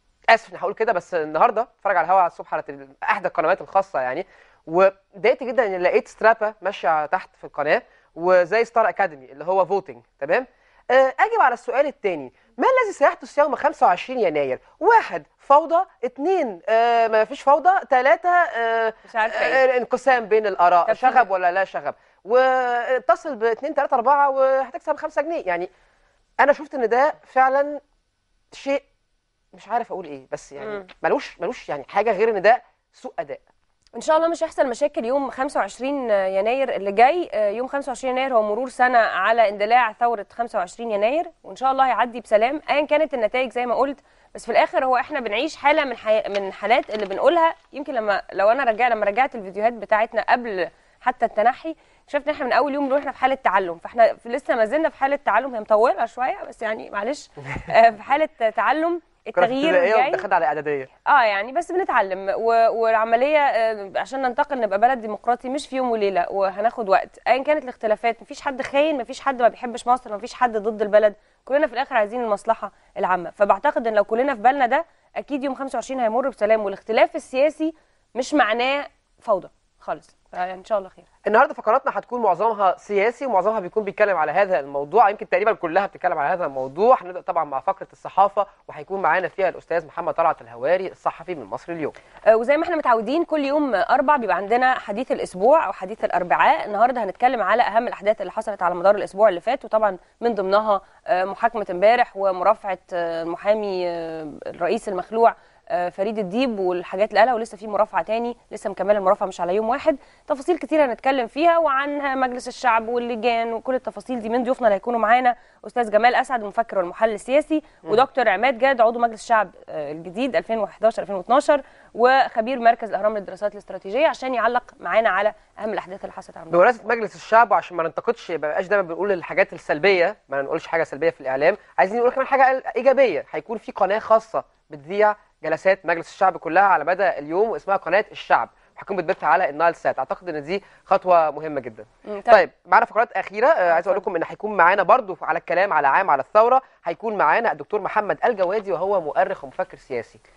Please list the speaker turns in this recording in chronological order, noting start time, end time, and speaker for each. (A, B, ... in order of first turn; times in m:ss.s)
0:00.3-0:25.7 A
0:19.1-0:19.6 B
0:20.9-0:21.2 B
0:26.4-0:27.8 A
0:28.5-0:28.8 A
0:29.5-0:33.4 A
0:34.0-1:00.2 B
0:59.4-1:00.9 A
1:01.1-1:21.0 B
1:21.2-1:32.0 A
1:32.3-2:06.8 B
2:06.5-2:30.2 A
2:22.1-2:22.4 B
2:23.7-2:24.0 B